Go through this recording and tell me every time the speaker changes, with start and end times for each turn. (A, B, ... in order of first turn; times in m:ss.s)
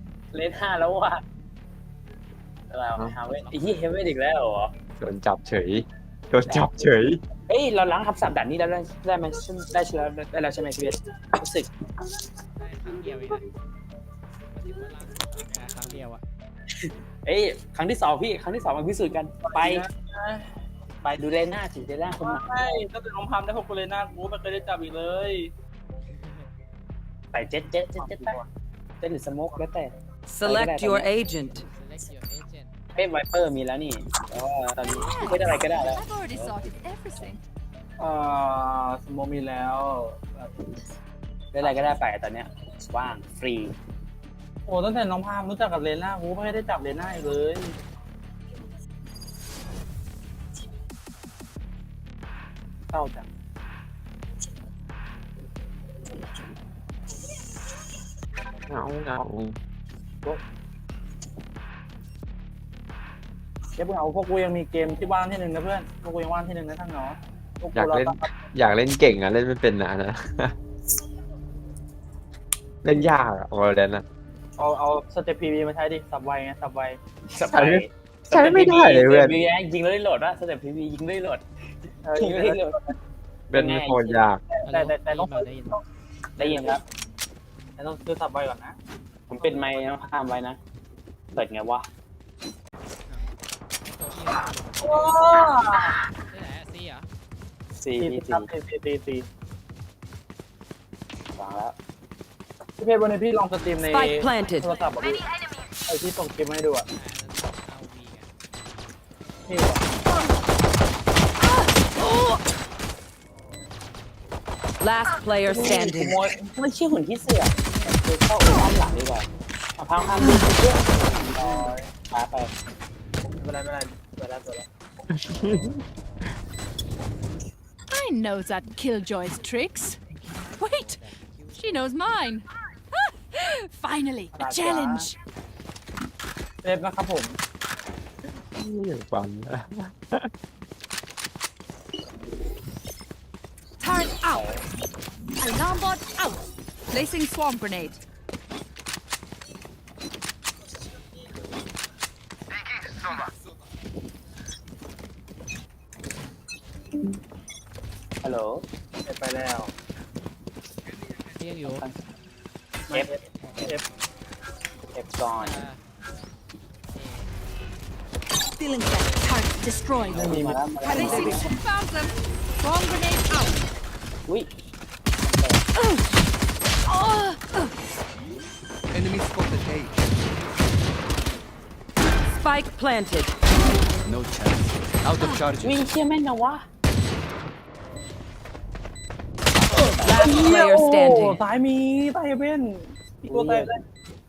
0:00.3-0:01.2 A
0:02.7-0:04.7 A
0:03.2-0:03.9 B
0:05.0-0:07.2 C
0:06.4-0:06.8 A
0:07.5-0:11.7 A
0:12.6-0:13.5 B
0:14.5-0:16.2 B
0:16.8-0:19.8 A
0:19.5-0:20.4 D
0:21.2-0:22.8 A
0:22.2-0:25.5 D
0:26.1-0:26.5 B
0:27.3-0:28.4 A
0:28.0-0:28.5 D
0:29.0-0:29.9 A
0:30.3-0:31.6 E
0:30.4-0:31.1 A
0:31.6-0:32.8 B
0:32.9-0:36.6 A
0:34.8-0:37.4 F
0:38.0-0:40.5 D
0:41.5-0:43.7 A
0:44.7-0:47.7 D
0:52.9-0:53.3 D
0:58.7-0:59.6 C
1:03.8-1:08.5 D
1:07.7-1:10.5 C
1:12.8-1:14.0 C
1:14.6-1:17.0 D
1:17.3-1:21.4 A
1:17.5-1:19.4 C
1:22.0-1:22.7 D
1:22.2-1:22.8 A
1:23.5-1:24.4 C
1:23.5-1:24.2 A
1:24.6-1:25.8 B
1:24.7-1:25.8 D
1:26.4-1:26.7 D
1:26.4-1:26.8 A
1:27.8-1:28.8 D
1:29.3-1:30.6 A
1:31.3-1:31.9 A
1:33.8-1:35.6 B
1:34.8-1:36.0 D
1:36.3-1:37.1 B
1:37.7-1:38.5 A
1:38.0-1:39.3 D
1:41.4-1:41.8 A
1:42.8-1:45.2 D
1:43.8-1:44.7 E
1:45.9-1:46.8 D
1:46.9-1:48.3 B
1:49.5-1:49.8 D
1:50.1-1:50.4 F
1:51.4-1:52.4 F
1:54.8-1:56.2 E
1:55.5-2:02.5 A
2:01.2-2:01.9 D
2:03.4-2:04.7 D
2:05.2-2:05.8 C
2:07.9-2:11.0 F
2:10.2-2:12.0 B
2:11.5-2:15.2 F
2:14.4-2:15.1 D
2:16.6-2:17.4 D
2:18.5-2:20.3 C
2:23.8-2:24.5 F
2:24.3-2:24.6 A
2:25.4-2:28.0 F
2:38.2-2:38.6 A
2:39.0-2:39.7 D
2:41.3-2:41.8 B
2:42.9-2:43.8 D
2:42.9-2:43.7 A
2:43.4-2:43.9 B
2:44.9-2:45.5 A
2:45.3-2:45.8 B
2:46.9-2:47.3 B
2:48.6-2:53.6 F
2:49.0-2:49.3 B
2:49.9-2:51.3 B
2:50.1-2:51.5 A
2:55.2-2:55.6 A
2:55.7-2:56.1 F
2:56.8-2:57.7 F
2:58.9-3:00.1 G
3:02.3-3:03.3 E
3:04.0-3:05.9 G
3:05.2-3:05.5 F
3:05.6-3:06.6 A
3:09.5-3:10.5 A
3:10.0-3:11.4 E
3:10.0-3:13.7 D
3:13.3-3:13.8 A